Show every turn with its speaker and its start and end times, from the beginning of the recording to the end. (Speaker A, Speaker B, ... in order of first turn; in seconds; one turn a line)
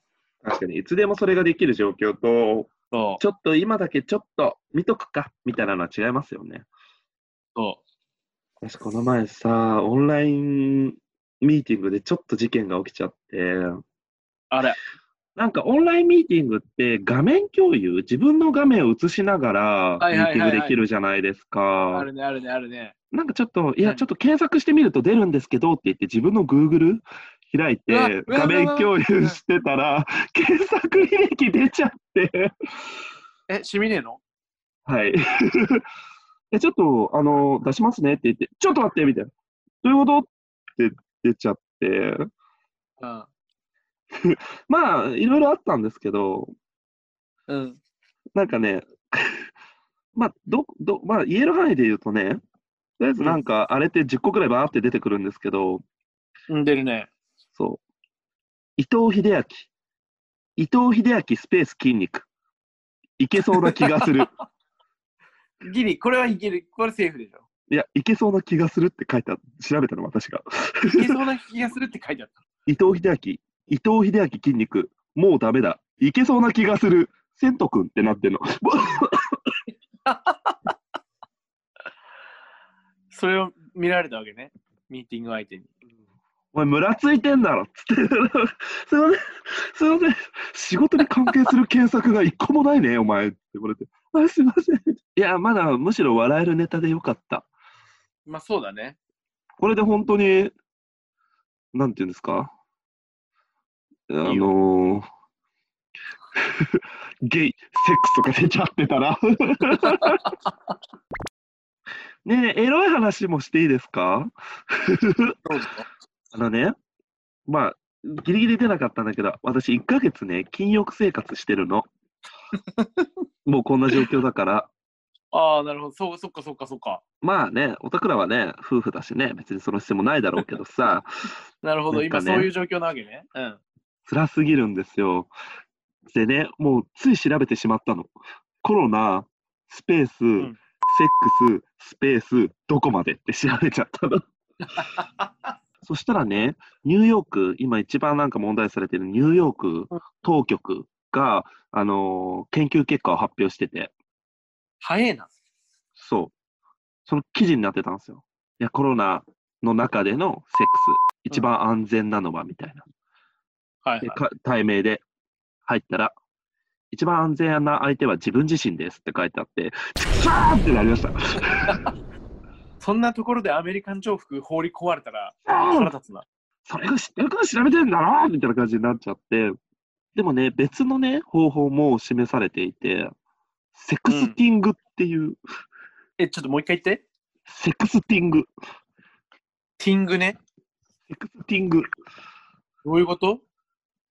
Speaker A: 0.4-6.7
Speaker B: 2.9-3.2
Speaker B: 7.5-7.8
Speaker A: 8.6-13.8
Speaker B: 14.5-14.8
Speaker A: 15.3-22.1
Speaker B: 20.0-20.8
Speaker B: 21.9-22.9
Speaker A: 23.1-32.5
Speaker B: 23.8-24.1
Speaker B: 27.9-29.4
Speaker B: 33.5-34.2
Speaker A: 34.9-35.8
Speaker A: 36.5-39.3
Speaker A: 39.8-42.2
Speaker B: 43.0-43.3
Speaker A: 44.1-46.5
Speaker B: 47.5-47.8
Speaker A: 48.3-49.5
Speaker A: 50.1-52.4
Speaker A: 53.0-55.8
Speaker B: 56.5-57.1
Speaker A: 57.5-57.8
Speaker A: 58.8-59.7
Speaker A: 60.6-62.3
Speaker A: 63.2-64.3
Speaker B: 63.5-64.3
Speaker B: 65.6-67.4
Speaker A: 67.7-70.9
Speaker B: 70.9-72.3
Speaker A: 72.7-79.4
Speaker B: 80.0-80.6
Speaker B: 83.1-85.7
Speaker A: 86.5-97.5
Speaker B: 98.2-99.0
Speaker A: 99.6-100.5
Speaker A: 101.7-102.5
Speaker A: 104.1-105.0
Speaker B: 104.2-104.5
Speaker A: 106.4-110.2
Speaker B: 109.8-110.2
Speaker A: 112.2-115.3
Speaker B: 115.4-115.9
Speaker A: 116.3-116.7
Speaker A: 117.5-121.9
Speaker B: 122.6-123.1
Speaker A: 123.4-124.7
Speaker B: 125.3-127.0
Speaker A: 127.2-131.1
Speaker B: 131.6-133.6
Speaker A: 131.9-132.5
Speaker A: 134.1-135.3
Speaker A: 136.1-144.2
Speaker B: 144.8-145.3
Speaker A: 145.8-153.9
Speaker B: 154.8-155.3
Speaker A: 156.0-156.3
Speaker A: 157.1-162.8
Speaker B: 163.8-164.2
Speaker A: 164.0-165.0
Speaker A: 165.7-166.1
Speaker A: 166.9-171.8
Speaker B: 172.8-176.2
Speaker A: 175.5-175.9
Speaker A: 176.7-179.5
Speaker A: 180.1-183.1
Speaker A: 183.7-185.4
Speaker B: 184.1-184.4
Speaker B: 186.2-187.0
Speaker A: 187.5-188.5
Speaker B: 189.8-190.4
Speaker A: 191.1-191.8
Speaker B: 192.8-193.4